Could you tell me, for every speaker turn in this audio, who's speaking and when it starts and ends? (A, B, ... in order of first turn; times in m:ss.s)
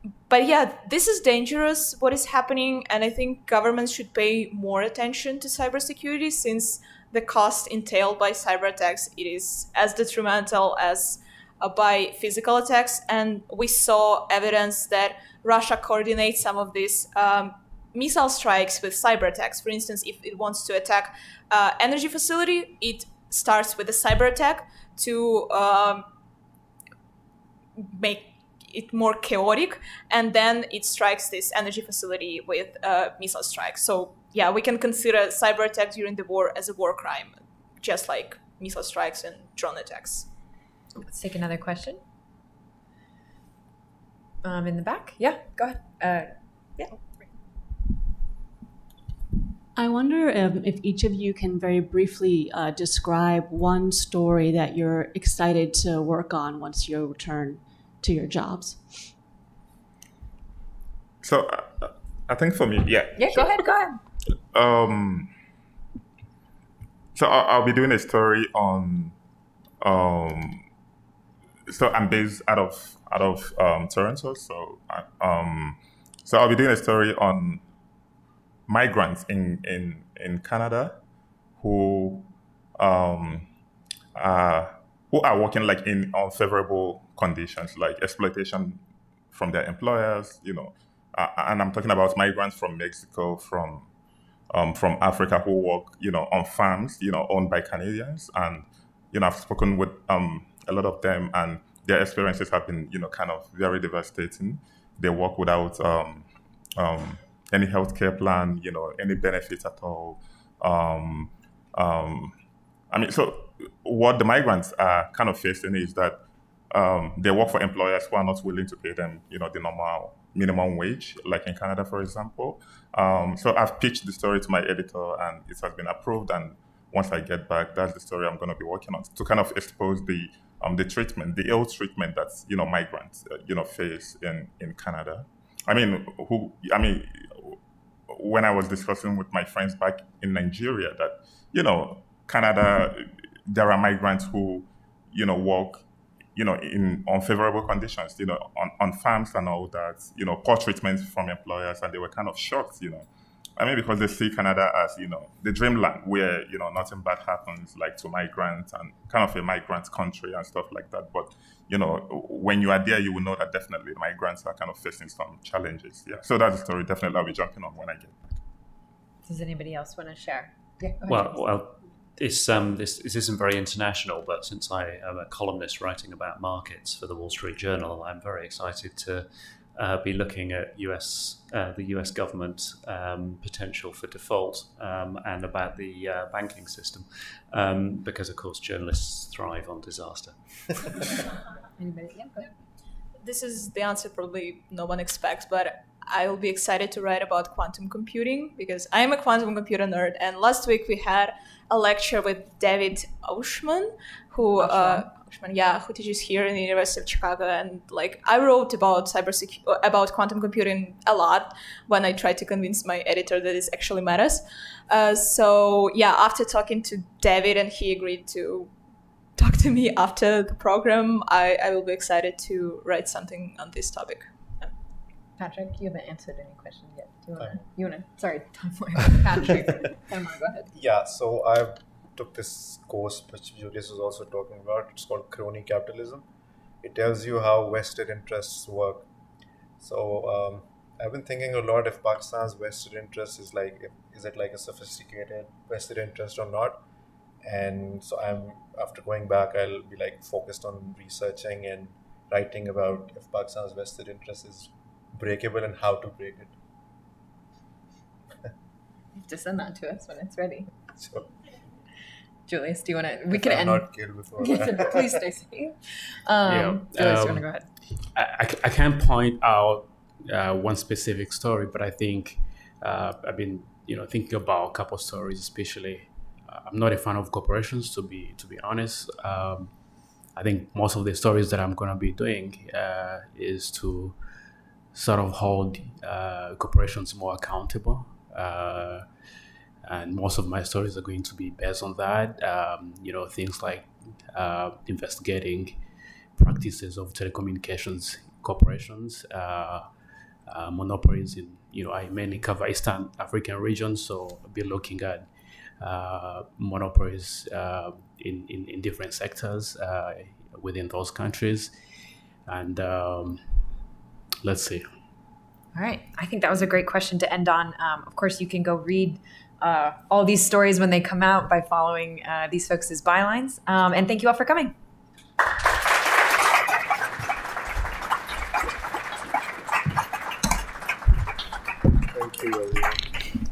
0:00.3-0:26.0 A
0:27.8-0:40.3 A
0:41.0-0:42.0 B
0:44.4-0:47.0 B
0:49.8-0:59.1 C
1:01.2-1:03.6 D
1:03.2-1:04.0 B
1:04.5-1:05.3 D
1:07.1-1:09.1 D
1:09.8-1:10.6 D
1:11.7-1:17.6 D
1:18.7-1:21.0 D
1:21.6-1:23.5 D
1:24.1-1:33.9 D
1:34.5-1:52.3 D
1:52.9-1:56.2 D
1:56.7-2:17.6 D
2:18.1-2:25.8 D
2:26.4-2:33.0 D
2:33.6-2:48.2 D
2:49.2-2:51.4 B
2:51.0-3:10.8 E
3:11.8-3:12.5 B
3:13.2-3:38.7 A
3:24.6-3:25.0 B
3:39.4-3:44.7 A
3:45.4-3:50.7 B
3:47.4-3:47.6 F
3:50.7-3:56.2 F
3:56.8-3:59.0 F
3:59.8-4:06.8 F
4:07.4-4:16.5 F
4:19.2-4:20.7 B
4:20.9-4:21.3 F
4:22.5-4:23.9 B
4:23.3-4:25.2 F
4:24.4-4:27.6 B
4:26.4-4:27.5 G
4:28.1-4:39.7 G
4:40.3-4:44.2 G
4:44.9-4:49.0 G
4:49.8-4:55.8 G
4:56.4-4:59.9 G
5:00.5-5:05.3 G
5:05.8-5:11.7 G
5:12.5-5:13.4 G
5:14.4-5:14.8 G
5:15.7-5:24.7 B
5:32.1-5:33.0 F